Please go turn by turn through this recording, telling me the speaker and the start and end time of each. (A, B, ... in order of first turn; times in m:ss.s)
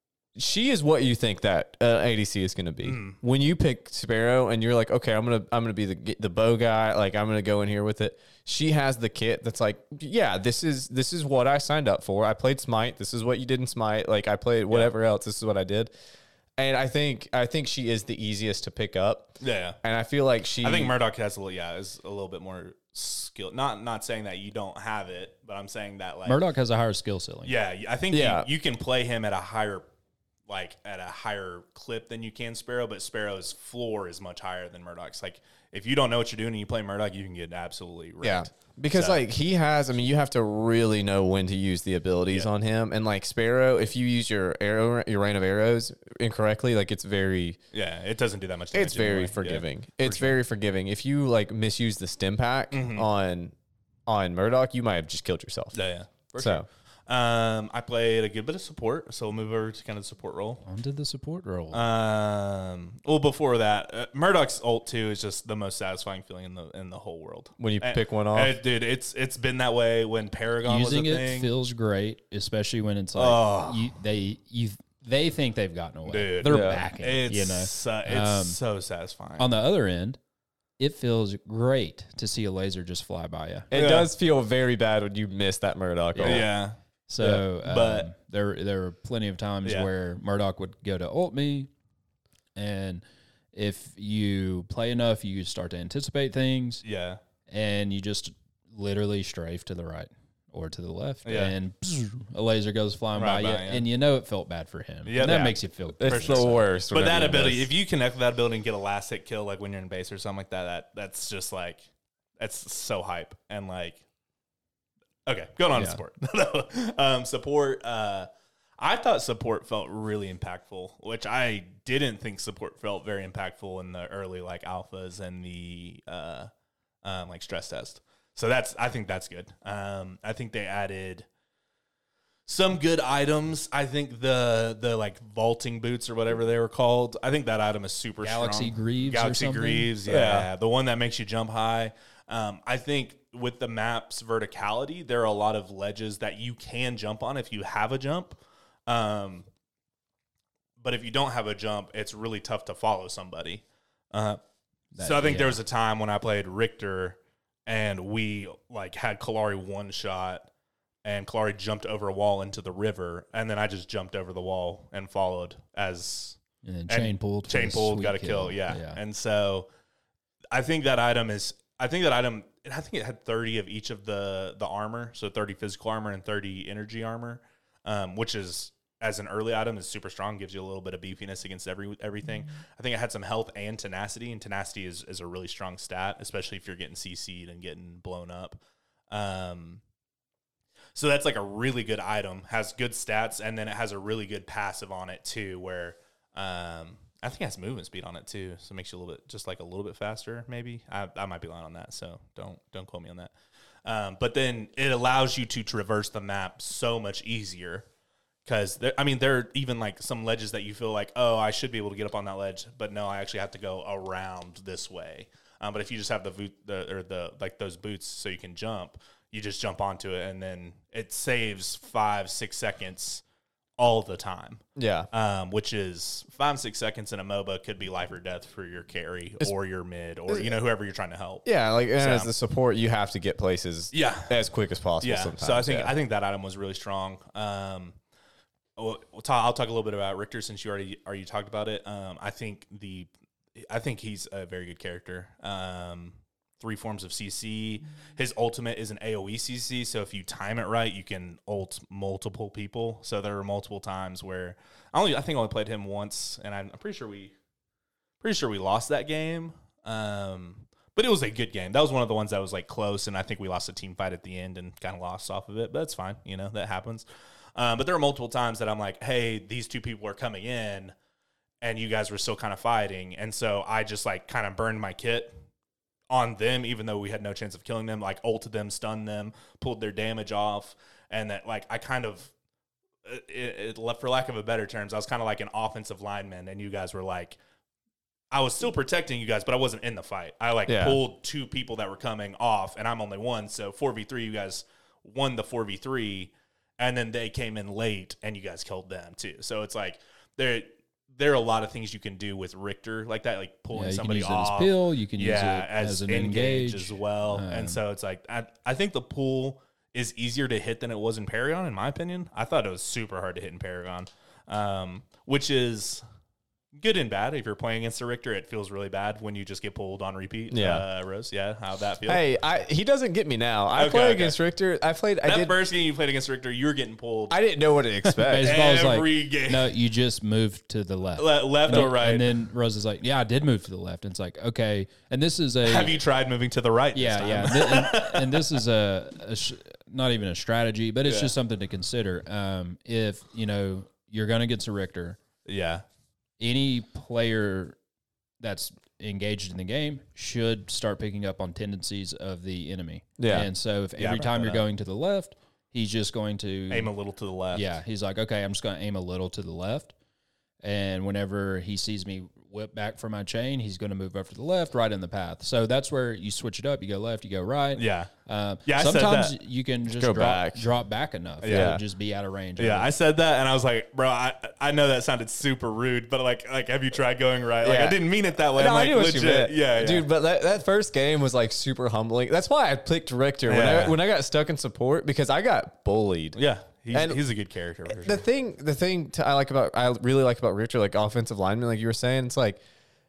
0:00.4-0:15.9 A
0:02.8-0:03.2 B
0:16.6-0:21.0 A
0:19.4-0:19.8 B
0:20.6-0:26.4 B
0:26.3-0:27.5 C
0:27.4-0:29.8 B
0:28.1-0:28.5 A
0:30.5-0:39.2 B
0:38.2-0:47.6 A
0:47.7-0:50.4 B
0:48.7-0:53.6 A
0:52.7-0:53.1 B
0:54.1-0:55.8 A
0:55.7-1:00.6 B
0:56.4-0:56.7 A
1:00.6-1:01.8 C
1:01.7-1:11.5 B
1:07.6-1:08.6 A
1:10.6-1:18.6 C
1:13.2-1:13.9 B
1:16.1-1:19.5 B
1:16.4-1:16.8 A
1:19.4-1:20.2 C
1:20.8-1:23.7 C
1:23.7-1:26.5 A
1:23.7-1:24.1 B
1:26.2-1:26.5 C
1:26.2-1:28.1 B
1:27.1-1:31.7 C
1:32.6-1:33.0 C
1:33.5-1:36.8 C
1:36.8-1:37.2 B
1:37.5-1:46.6 C
1:41.2-1:41.6 B
1:43.2-1:43.8 B
1:45.1-1:51.8 B
1:46.0-1:47.7 A
1:52.4-1:54.0 B
1:55.3-2:06.5 B
1:55.8-1:56.0 C
2:07.0-2:11.3 B
2:12.5-2:29.5 B
2:18.2-2:19.9 C
2:20.0-2:20.5 A
2:30.8-2:34.4 B
2:34.9-2:35.6 C
2:35.0-2:40.5 B
2:41.0-2:49.7 B
2:46.6-2:49.0 C
2:50.5-3:08.6 B
3:09.1-3:09.8 B
3:11.0-3:23.3 B
3:23.8-3:27.9 B
3:28.5-3:43.2 B
3:43.8-3:51.5 B
3:44.8-3:45.1 A
3:50.3-3:50.5 A
3:51.4-3:55.9 A
3:52.0-3:52.3 B
3:53.9-3:54.4 B
3:55.0-3:58.0 B
3:58.8-4:17.3 B
4:18.2-4:30.9 B
4:31.6-4:35.3 B
4:36.1-4:42.3 B
4:43.0-4:47.4 B
4:48.3-5:16.0 B
4:50.7-4:51.0 A
5:03.7-5:07.8 C
5:16.8-5:22.2 B
5:20.5-5:20.8 A
5:22.1-5:25.6 A
5:23.7-5:24.4 B
5:25.2-5:27.4 B
5:27.3-5:28.6 A
5:28.2-5:36.0 C
5:28.4-5:29.8 B
5:31.2-5:32.4 B
5:35.6-5:38.6 B
5:36.9-5:45.2 C
5:41.0-5:41.3 B
5:45.5-5:45.8 B
5:46.4-5:47.8 C
5:48.4-5:56.9 C
5:53.2-5:53.5 A
5:54.0-5:54.6 B
5:56.7-5:57.7 B
5:57.5-5:59.9 C
6:00.6-6:12.9 C
6:07.8-6:08.1 B
6:08.7-6:09.4 B
6:10.0-6:10.7 A
6:11.4-6:11.8 B
6:11.5-6:11.8 A
6:12.6-6:20.1 B
6:17.6-6:18.0 A
6:18.5-6:26.4 A
6:23.5-6:24.0 B
6:26.4-6:28.3 B
6:26.9-6:27.2 A
6:27.9-6:32.6 A